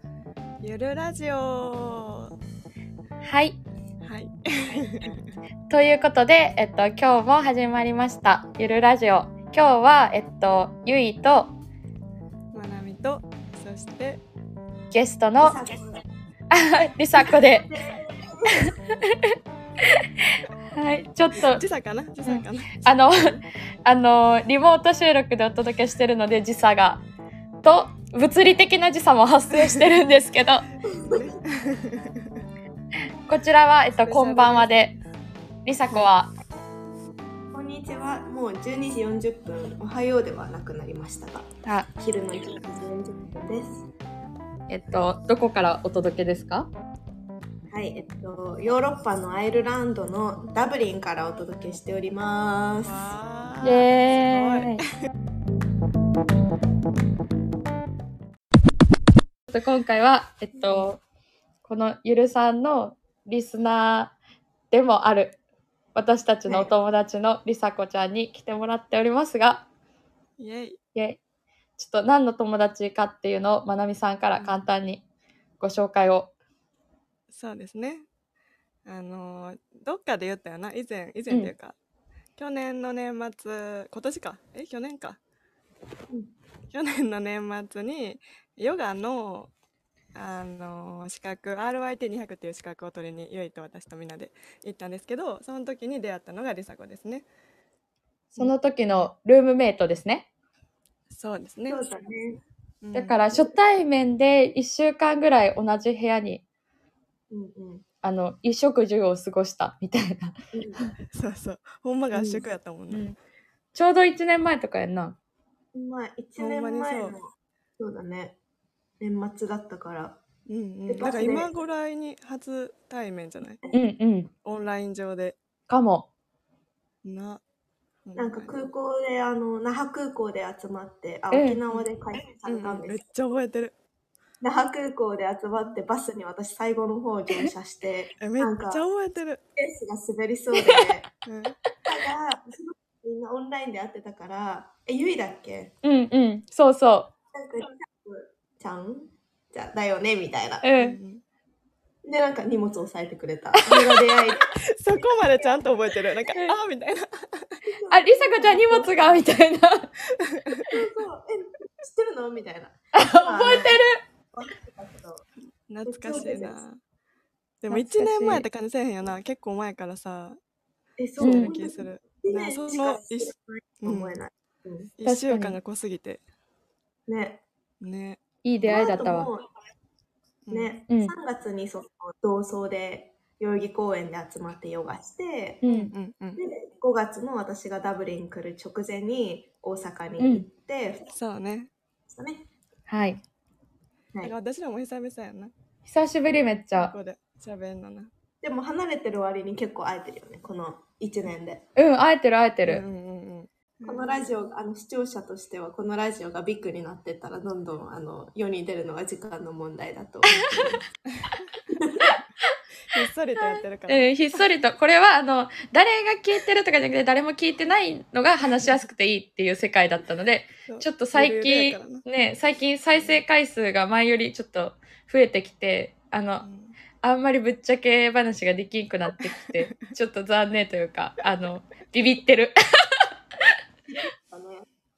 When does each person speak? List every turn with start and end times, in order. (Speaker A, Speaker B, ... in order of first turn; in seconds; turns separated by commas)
Speaker A: 0.6-2.3, Speaker B: 3.2-3.6, Speaker A: 4.0-5.3, Speaker B: 5.7-11.5, Speaker A: 12.5-14.2, Speaker B: 14.9-15.6, Speaker C: 15.4-16.0, Speaker B: 16.5-17.7, Speaker C: 17.1-18.7, Speaker B: 18.6-19.3, Speaker B: 20.7-21.6, Speaker A: 21.4-22.8, Speaker B: 22.2-23.3, Speaker B: 23.8-27.0, Speaker B: 27.6-30.6, Speaker C: 30.9-31.3, Speaker A: 31.1-32.4, Speaker B: 33.2-34.9, Speaker A: 34.0-35.0, Speaker B: 35.6-36.3, Speaker C: 37.5-43.9, Speaker B: 41.6-41.9, Speaker B: 44.7-46.7, Speaker C: 47.7-53.0, Speaker A: 52.8-54.8, Speaker B: 53.6-54.8, Speaker B: 59.5-61.0, Speaker B: 61.6-64.1, Speaker B: 64.7-65.4, Speaker B: 65.9-69.7, Speaker C: 66.5-66.7, Speaker A: 70.4-70.8, Speaker B: 71.8-75.0, Speaker A: 74.3-74.6, Speaker B: 75.6-76.3, Speaker A: 77.3-78.0, Speaker A: 78.8-81.7, Speaker A: 82.4-85.2, Speaker A: 86.7-89.5, Speaker A: 90.1-97.2, Speaker B: 98.4-100.3, Speaker A: 101.1-101.8, Speaker C: 101.7-102.4, Speaker A: 102.8-103.2, Speaker B: 102.9-106.4, Speaker C: 107.3-107.8, Speaker B: 108.0-110.9, Speaker C: 110.5-110.8, Speaker A: 111.1-113.1, Speaker C: 112.1-112.5, Speaker B: 112.9-113.2, Speaker B: 113.7-115.2, Speaker C: 115.7-118.4, Speaker A: 116.4-117.2, Speaker C: 119.0-120.2, Speaker A: 120.5-123.6, Speaker C: 120.9-121.5, Speaker B: 123.7-124.3, Speaker A: 124.4-125.4, Speaker B: 125.7-126.1, Speaker A: 127.0-127.4, Speaker A: 128.1-128.6, Speaker C: 128.2-133.0, Speaker B: 131.3-131.6, Speaker A: 132.4-133.7, Speaker C: 134.4-138.8, Speaker A: 138.2-139.4, Speaker C: 139.6-141.1, Speaker A: 141.2-141.6, Speaker C: 141.8-145.7, Speaker B: 145.8-147.1, Speaker C: 147.3-150.7, Speaker B: 150.6-151.0, Speaker A: 150.8-151.2, Speaker C: 152.0-155.8, Speaker B: 153.6-154.0, Speaker A: 154.8-157.6, Speaker C: 157.6-159.2, Speaker B: 157.9-159.9, Speaker A: 160.3-160.6, Speaker C: 160.7-163.8, Speaker B: 162.9-164.0, Speaker C: 164.3-165.2, Speaker A: 165.7-166.8, Speaker C: 165.8-166.6, Speaker A: 167.6-170.4, Speaker B: 167.7-168.4, Speaker C: 171.0-174.9, Speaker B: 171.2-171.5, Speaker A: 171.2-174.2, Speaker A: 175.0-176.2, Speaker B: 175.0-175.6, Speaker C: 177.1-177.4, Speaker A: 177.8-178.2, Speaker B: 178.4-179.3, Speaker C: 178.6-179.5, Speaker A: 180.5-180.8, Speaker C: 180.5-185.6, Speaker B: 180.9-181.1, Speaker B: 185.6-185.9, Speaker A: 185.6-186.4, Speaker C: 186.3-191.1, Speaker B: 190.2-190.4, Speaker A: 191.1-191.7, Speaker C: 192.1-192.5, Speaker B: 192.9-193.2, Speaker A: 194.2-195.5, Speaker B: 195.8-196.9, Speaker A: 196.7-198.1, Speaker C: 198.4-201.6, Speaker B: 201.8-202.8, Speaker A: 202.6-204.2, Speaker C: 203.8-210.8, Speaker C: 211.8-212.1, Speaker A: 212.9-214.5, Speaker B: 213.4-226.4, Speaker A: 220.7-222.0, Speaker A: 222.9-223.2, Speaker A: 226.4-226.8, Speaker B: 227.0-233.0, Speaker C: 233.9-234.6